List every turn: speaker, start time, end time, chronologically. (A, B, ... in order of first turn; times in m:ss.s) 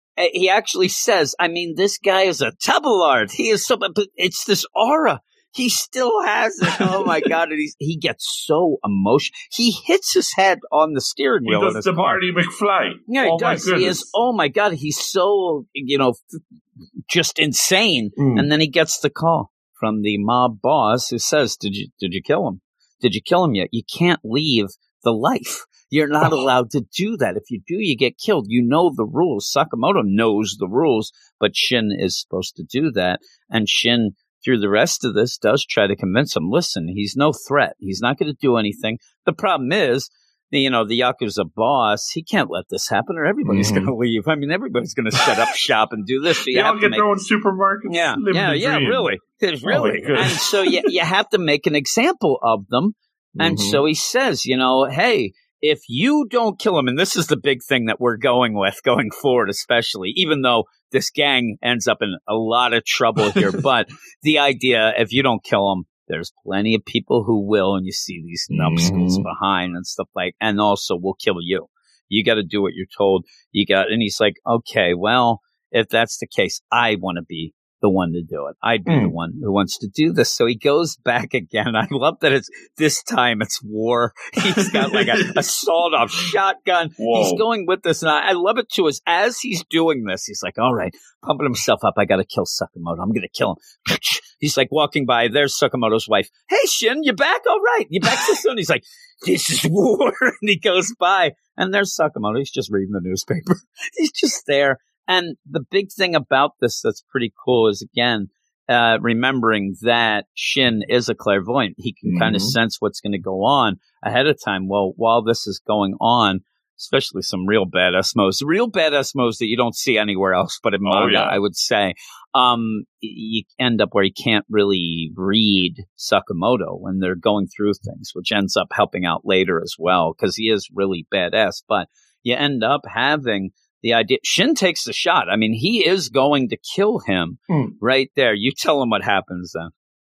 0:00.2-0:12.2 A
0:06.8-0:07.1 B
0:11.5-0:14.1 B
0:13.1-0:16.2 A
0:17.1-0:47.1 A
0:18.2-0:18.5 B
0:43.5-0:43.9 B
0:46.5-0:49.1 B
0:47.9-2:19.7 A
0:49.6-0:50.9 B
0:53.4-0:53.8 B
1:08.5-1:09.2 B
1:18.9-1:19.1 B
1:24.6-1:25.4 B
1:27.0-1:27.4 B
1:52.0-1:52.6 B
2:00.8-2:01.4 B